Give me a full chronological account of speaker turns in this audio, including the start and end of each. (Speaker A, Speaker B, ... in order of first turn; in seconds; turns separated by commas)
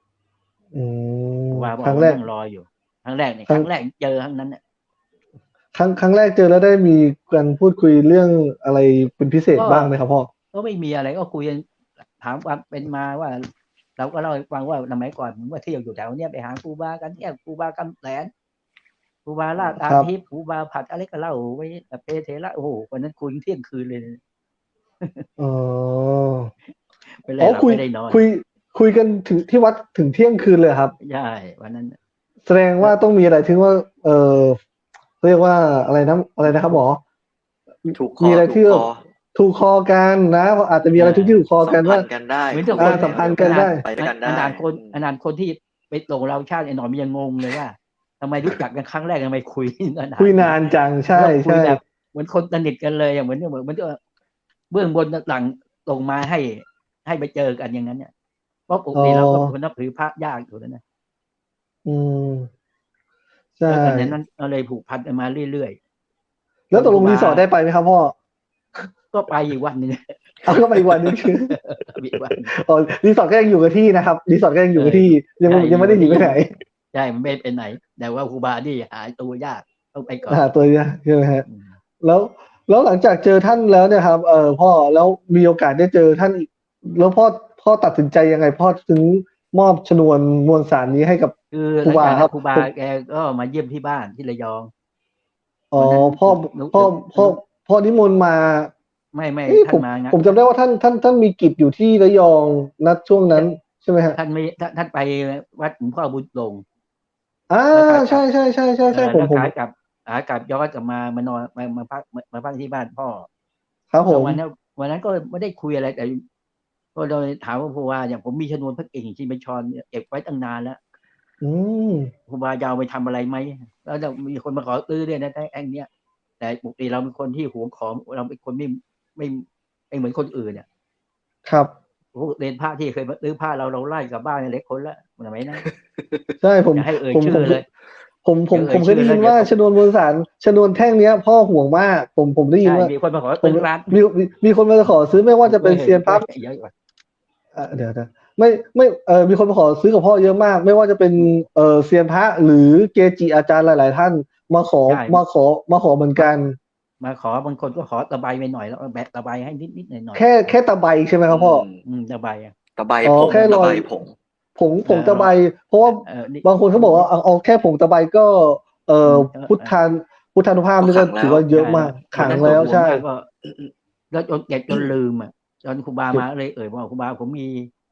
Speaker A: 0.7-2.2, Speaker B: 1.5-4.6, Speaker A: 5.7-10.3, Speaker B: 9.5-9.9, Speaker B: 10.5-11.6, Speaker B: 12.2-13.4, Speaker B: 14.0-18.3, Speaker B: 19.2-24.2, Speaker A: 25.4-26.5, Speaker B: 27.2-28.2, Speaker A: 27.4-30.9, Speaker B: 31.0-31.9, Speaker A: 32.5-34.6, Speaker A: 35.2-37.0, Speaker B: 36.4-36.8, Speaker A: 37.8-42.0, Speaker C: 37.9-39.0, Speaker B: 40.9-41.4, Speaker C: 41.6-45.0, Speaker B: 42.5-50.6, Speaker A: 42.7-43.8, Speaker A: 50.2-51.8, Speaker B: 51.1-54.0, Speaker B: 54.7-58.1, Speaker B: 58.7-60.8, Speaker A: 58.9-59.5, Speaker A: 61.9-62.5, Speaker A: 63.6-64.1, Speaker B: 63.7-65.8, Speaker A: 66.7-68.1, Speaker B: 66.7-67.5, Speaker B: 69.1-71.0, Speaker A: 70.4-71.6, Speaker B: 71.5-72.5, Speaker A: 72.5-76.5, Speaker B: 74.7-76.4, Speaker B: 76.9-80.5, Speaker A: 80.3-81.4, Speaker B: 81.5-81.8, Speaker A: 82.0-92.7, Speaker B: 91.5-94.7, Speaker A: 95.7-98.7, Speaker B: 95.7-97.4, Speaker B: 99.1-100.4, Speaker A: 99.5-104.2, Speaker B: 104.1-106.6, Speaker A: 107.5-109.5, Speaker B: 107.7-108.3, Speaker B: 108.9-113.3, Speaker A: 113.9-114.4, Speaker B: 114.1-116.2, Speaker B: 116.9-120.8, Speaker A: 121.4-122.1, Speaker B: 122.3-125.9, Speaker B: 126.4-130.7, Speaker A: 131.4-131.7, Speaker B: 132.1-135.6, Speaker A: 136.4-137.6, Speaker B: 136.7-137.7, Speaker A: 138.2-142.9, Speaker B: 138.5-139.5, Speaker B: 142.6-144.0, Speaker A: 143.4-146.2, Speaker B: 145.4-146.7, Speaker A: 147.5-156.6, Speaker B: 154.9-155.2, Speaker B: 157.0-160.5, Speaker A: 160.1-161.6, Speaker C: 161.3-161.8, Speaker B: 161.8-162.5, Speaker C: 162.8-164.1, Speaker A: 163.0-163.9, Speaker A: 164.6-173.0, Speaker B: 164.8-165.3, Speaker B: 165.8-167.1, Speaker B: 169.0-169.8, Speaker C: 170.8-171.4, Speaker B: 171.5-173.3, Speaker C: 172.1-172.7, Speaker C: 173.4-173.7, Speaker B: 174.1-177.7